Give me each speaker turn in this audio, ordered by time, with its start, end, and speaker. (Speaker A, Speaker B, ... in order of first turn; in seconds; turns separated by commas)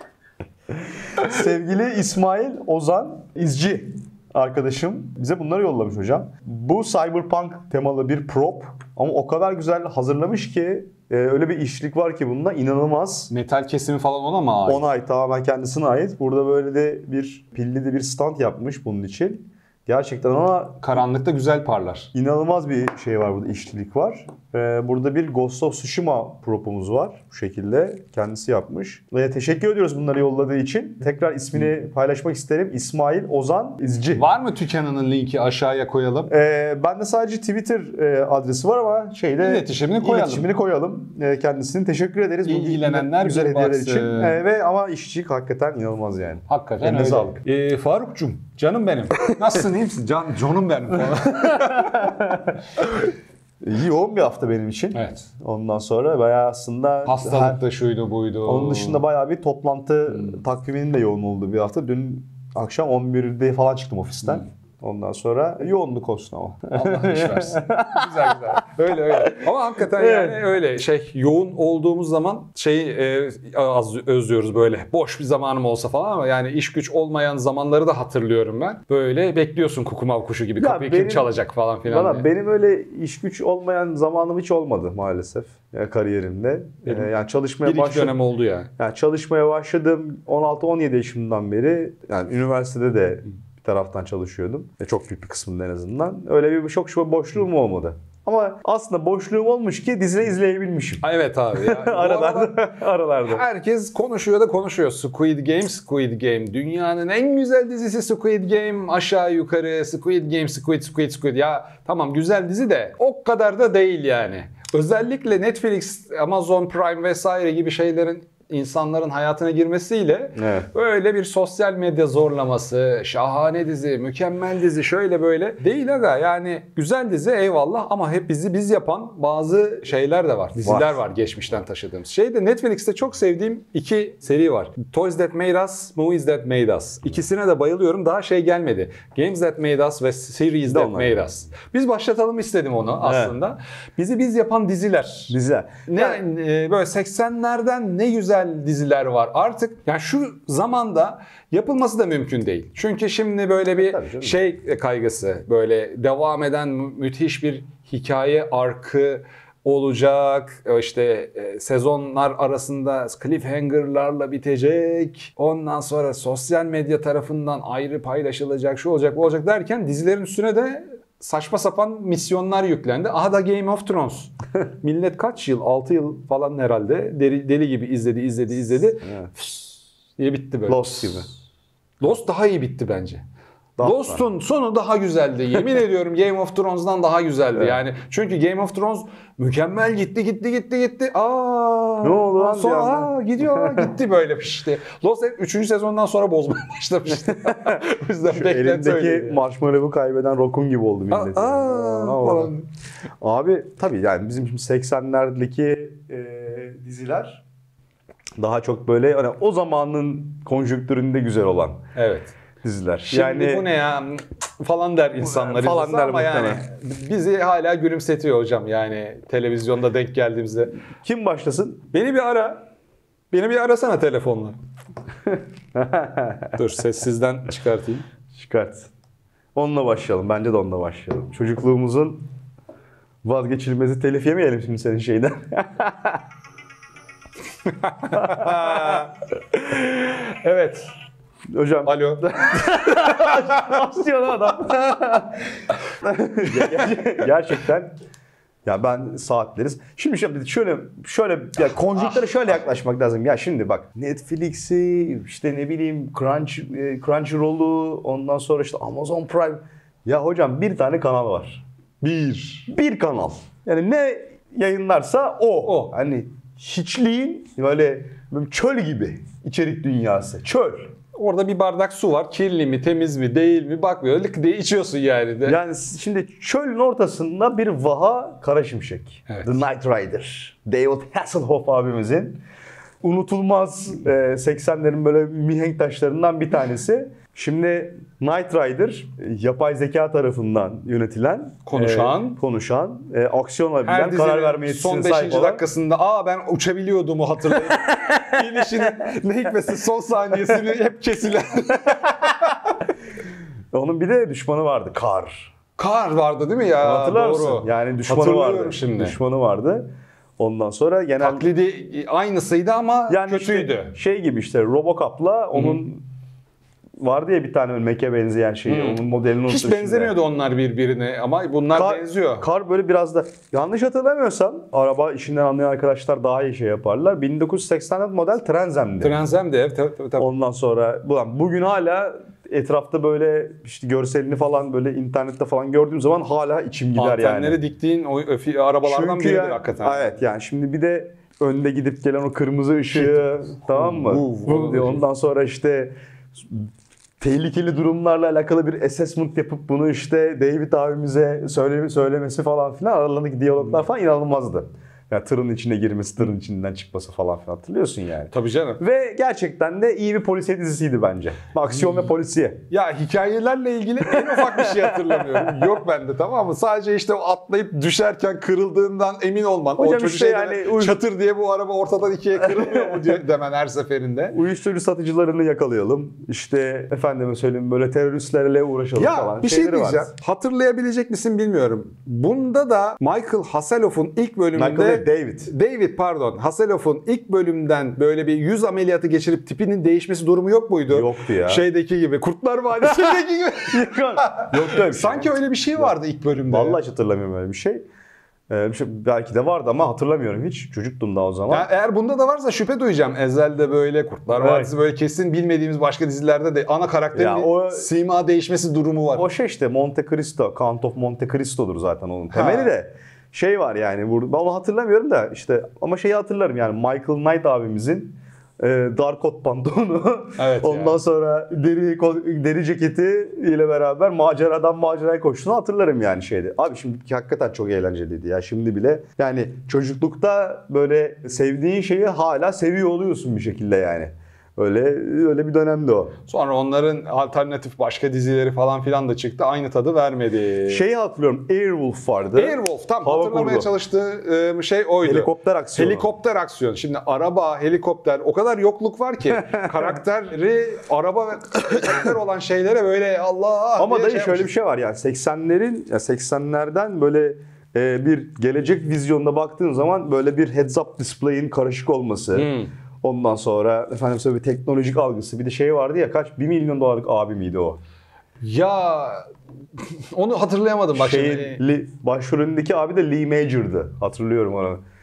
Speaker A: 1.2-13.3, Speaker B: 13.3-14.9, Speaker A: 14.7-20.8, Speaker B: 20.8-22.1, Speaker A: 22.1-34.3, Speaker B: 34.1-36.3, Speaker A: 36.3-47.4, Speaker B: 39.4-40.5, Speaker B: 42.5-44.4, Speaker B: 46.5-52.1, Speaker A: 51.5-52.5, Speaker A: 53.6-57.6, Speaker B: 54.9-55.2, Speaker B: 57.0-59.0, Speaker A: 58.5-68.4, Speaker B: 66.7-82.3, Speaker A: 69.1-70.5, Speaker A: 80.6-81.3, Speaker A: 81.8-88.2, Speaker B: 87.6-88.7, Speaker A: 88.8-103.5, Speaker B: 101.0-145.3, Speaker A: 120.4-120.7, Speaker A: 130.6-131.0, Speaker A: 140.7-141.2, Speaker A: 143.0-143.4, Speaker A: 145.3-146.2, Speaker B: 145.9-179.6, Speaker A: 153.8-154.4, Speaker B: 180.2-181.3, Speaker A: 180.7-181.3, Speaker B: 182.0-183.2, Speaker A: 183.8-184.2, Speaker B: 183.8-199.4, Speaker A: 192.0-193.9, Speaker A: 197.3-202.5, Speaker B: 201.1-202.7, Speaker A: 203.2-207.4, Speaker A: 208.4-211.8, Speaker B: 211.9-212.3, Speaker A: 212.6-213.7, Speaker B: 213.1-220.7, Speaker A: 215.2-216.6, Speaker A: 221.0-221.8, Speaker B: 221.9-222.7, Speaker B: 223.3-224.6, Speaker A: 225.3-226.6, Speaker B: 226.6-228.1, Speaker A: 228.3-228.9, Speaker A: 229.6-232.3, Speaker A: 233.2-236.2, Speaker B: 237.7-240.9, Speaker A: 238.2-239.0, Speaker A: 241.5-247.9, Speaker B: 241.9-243.8, Speaker A: 248.7-261.6, Speaker B: 262.0-262.7, Speaker A: 262.7-270.9, Speaker B: 265.6-265.9, Speaker B: 271.1-275.6, Speaker A: 275.4-282.4, Speaker B: 279.3-279.6, Speaker A: 283.0-295.6, Speaker B: 291.7-292.4, Speaker B: 293.8-302.6, Speaker A: 303.7-305.5, Speaker B: 305.8-309.2, Speaker A: 306.8-311.5, Speaker B: 311.2-313.9, Speaker A: 313.1-316.0, Speaker B: 315.5-315.8, Speaker A: 317.0-320.1, Speaker B: 318.7-322.4, Speaker A: 321.7-329.2, Speaker B: 329.0-330.3, Speaker A: 330.2-337.6, Speaker B: 337.0-340.1, Speaker A: 338.8-346.7, Speaker B: 342.9-345.0, Speaker A: 347.2-362.6, Speaker B: 358.3-358.8, Speaker B: 362.7-374.4, Speaker A: 364.2-365.6, Speaker A: 369.8-371.0, Speaker A: 372.4-373.1, Speaker A: 374.3-380.1, Speaker B: 379.0-396.8, Speaker A: 384.6-385.5, Speaker A: 390.9-391.6, Speaker A: 392.8-395.9, Speaker A: 396.5-397.9, Speaker A: 398.5-401.7, Speaker B: 401.5-409.3, Speaker A: 404.3-404.7, Speaker A: 407.1-407.9, Speaker A: 409.1-436.1, Speaker B: 412.3-412.7, Speaker B: 420.4-421.0, Speaker B: 436.3-440.9, Speaker A: 440.7-443.7, Speaker B: 442.4-454.5, Speaker A: 445.0-446.1, Speaker A: 453.8-467.8, Speaker B: 462.3-462.7, Speaker B: 468.4-469.3, Speaker B: 469.9-471.6, Speaker A: 470.9-474.8